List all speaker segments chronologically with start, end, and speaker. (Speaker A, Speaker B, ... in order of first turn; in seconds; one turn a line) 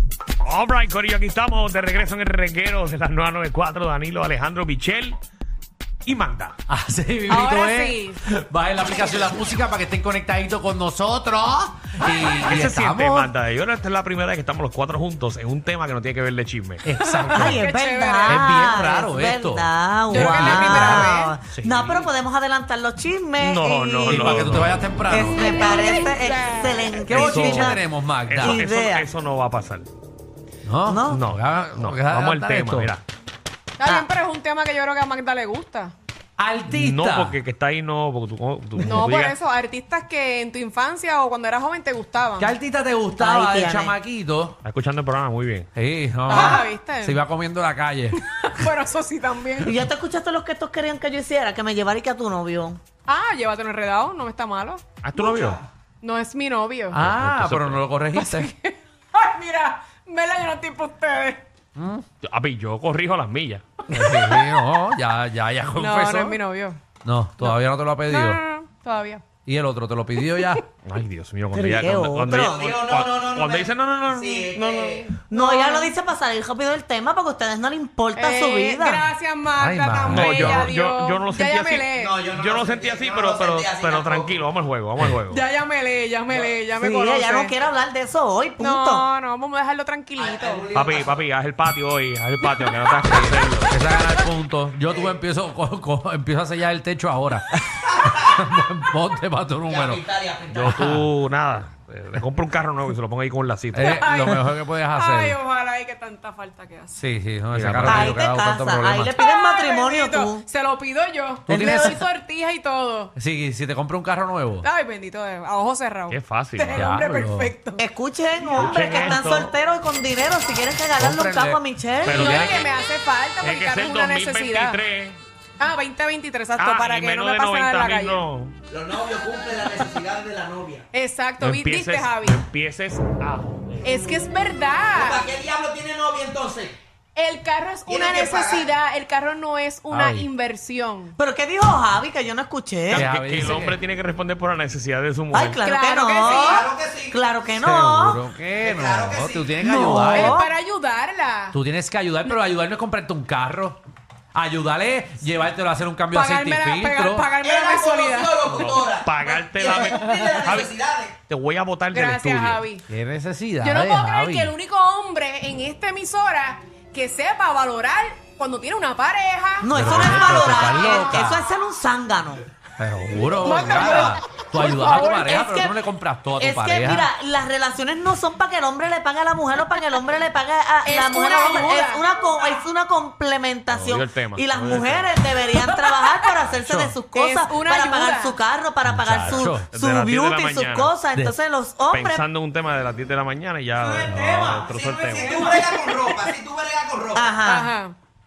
Speaker A: 0.4-5.2
Speaker A: 6.0-6.5
Speaker B: 6.7-13.3
Speaker C: 7.3-8.2
Speaker A: 12.4-16.8
Speaker B: 16.8-22.1
Speaker C: 17.0-18.5
Speaker D: 17.3-24.4
Speaker C: 20.1-21.3
Speaker A: 23.4-24.8
Speaker B: 24.0-25.6
Speaker D: 25.1-27.8
Speaker C: 25.3-27.0
Speaker B: 27.0-28.7
Speaker A: 27.1-29.9
Speaker D: 28.4-29.1
Speaker B: 30.6-32.9
Speaker D: 30.9-31.2
Speaker A: 31.1-33.0
Speaker C: 33.8-35.9
Speaker B: 36.4-37.4
Speaker A: 36.7-39.3
Speaker C: 38.8-42.5
Speaker B: 42.4-44.6
Speaker D: 43.2-44.0
Speaker A: 44.6-45.7
Speaker B: 45.7-48.2
Speaker C: 46.3-47.2
Speaker D: 46.3-46.6
Speaker C: 48.3-49.8
Speaker D: 49.6-52.8
Speaker C: 53.0-54.8
Speaker A: 55.0-55.6
Speaker C: 56.0-57.0
Speaker B: 56.9-58.5
Speaker A: 57.0-57.8
Speaker C: 58.1-61.4
Speaker B: 61.8-62.0
Speaker A: 62.2-63.6
Speaker B: 63.9-66.4
Speaker C: 65.8-66.8
Speaker B: 67.0-68.4
Speaker C: 68.1-69.2
Speaker B: 69.4-70.6
Speaker A: 70.8-74.9
Speaker D: 71.5-72.8
Speaker E: 72.4-75.2
Speaker C: 75.1-75.9
Speaker D: 75.3-79.1
Speaker C: 78.1-82.1
Speaker B: 79.5-80.7
Speaker A: 80.1-85.4
Speaker E: 81.9-84.4
Speaker C: 85.3-87.5
Speaker D: 86.8-89.0
Speaker C: 88.6-90.6
Speaker E: 90.2-91.2
Speaker A: 90.7-93.7
Speaker B: 93.0-100.0
Speaker E: 94.8-95.2
Speaker E: 98.0-98.3
Speaker E: 99.7-100.8
Speaker A: 100.5-104.3
Speaker B: 100.7-101.0
Speaker B: 103.7-105.4
Speaker C: 103.8-104.4
Speaker C: 104.9-107.0
Speaker B: 107.0-109.2
Speaker A: 107.5-108.2
Speaker D: 107.9-110.4
Speaker C: 109.2-113.1
Speaker B: 111.5-112.0
Speaker B: 113.2-114.7
Speaker C: 114.6-117.8
Speaker A: 116.1-116.9
Speaker B: 116.7-117.5
Speaker D: 117.8-122.2
Speaker A: 118.5-119.5
Speaker E: 118.5-119.2
Speaker B: 120.9-122.5
Speaker A: 122.0-122.7
Speaker C: 122.1-124.8
Speaker A: 123.4-125.2
Speaker C: 125.6-128.2
Speaker A: 126.6-128.6
Speaker E: 128.7-130.8
Speaker C: 130.9-132.4
Speaker A: 131.4-133.8
Speaker C: 133.8-135.2
Speaker E: 134.9-136.8
Speaker C: 137.2-141.1
Speaker E: 137.9-138.7
Speaker B: 139.9-140.3
Speaker D: 141.2-143.1
Speaker A: 142.9-145.6
Speaker B: 142.9-143.8
Speaker D: 145.3-148.2
Speaker C: 145.6-146.6
Speaker E: 146.2-147.2
Speaker B: 147.6-150.4
Speaker E: 148.6-149.7
Speaker D: 149.6-150.5
Speaker C: 150.1-151.6
Speaker B: 151.5-153.8
Speaker B: 154.3-157.3
Speaker C: 156.1-158.4
Speaker E: 157.3-161.2
Speaker A: 158.5-160.7
Speaker A: 161.3-162.6
Speaker C: 161.9-162.8
Speaker B: 162.9-164.5
Speaker C: 163.6-171.4
Speaker D: 169.6-172.4
Speaker B: 169.7-171.3
Speaker B: 172.8-177.1
Speaker C: 173.4-175.2
Speaker D: 174.8-175.8
Speaker D: 176.3-192.2
Speaker C: 180.8-182.0
Speaker A: 183.7-185.2
Speaker B: 186.5-187.0
Speaker C: 187.1-188.4
Speaker B: 188.8-189.7
Speaker A: 188.9-191.0
Speaker B: 191.1-191.4
Speaker A: 191.9-195.5
Speaker E: 193.8-197.3
Speaker B: 194.1-194.5
Speaker D: 195.4-196.1
Speaker D: 197.1-197.7
Speaker C: 197.4-197.9